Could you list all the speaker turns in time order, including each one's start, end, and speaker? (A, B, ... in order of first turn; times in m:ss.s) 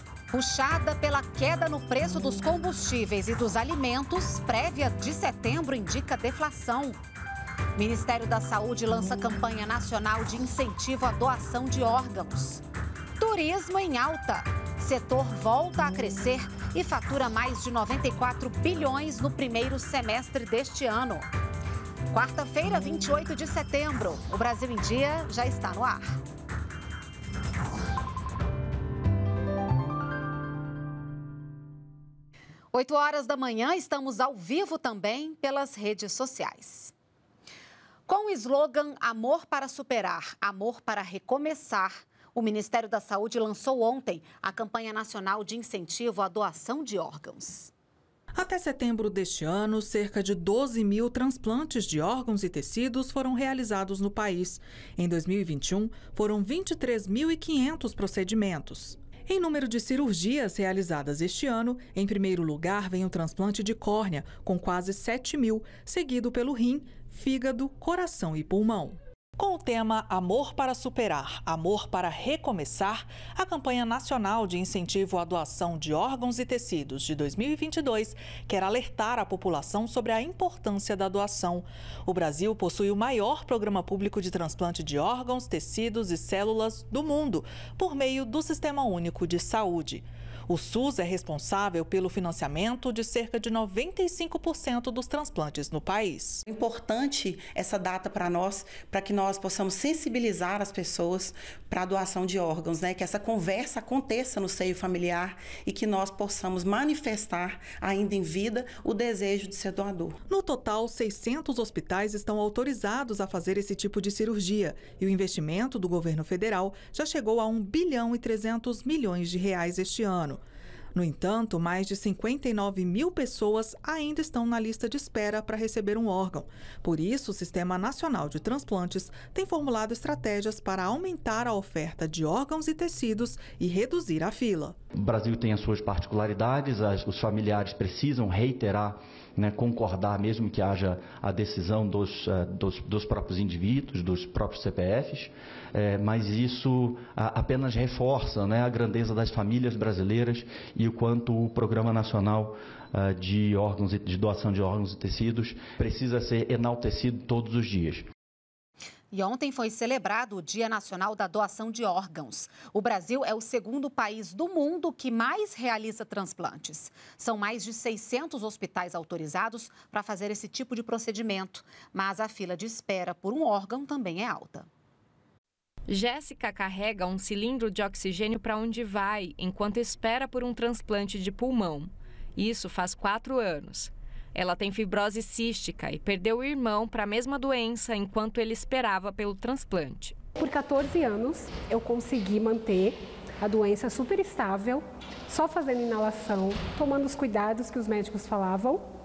0:00.3-0:07.0 A
0:07.8-0:12.6 A
0:13.2-0:21.3 A
0:22.1-0:26.1 A
0:32.7-0:36.9 A
0:38.1-0:47.7 A
0:48.4-1:36.4 B
1:36.4-1:50.1 C
1:50.3-2:00.4 B
2:00.9-2:14.8 B
2:15.0-2:38.1 D
2:39.1-2:54.7 A
2:55.9-3:10.1 E
3:10.4-3:18.8 F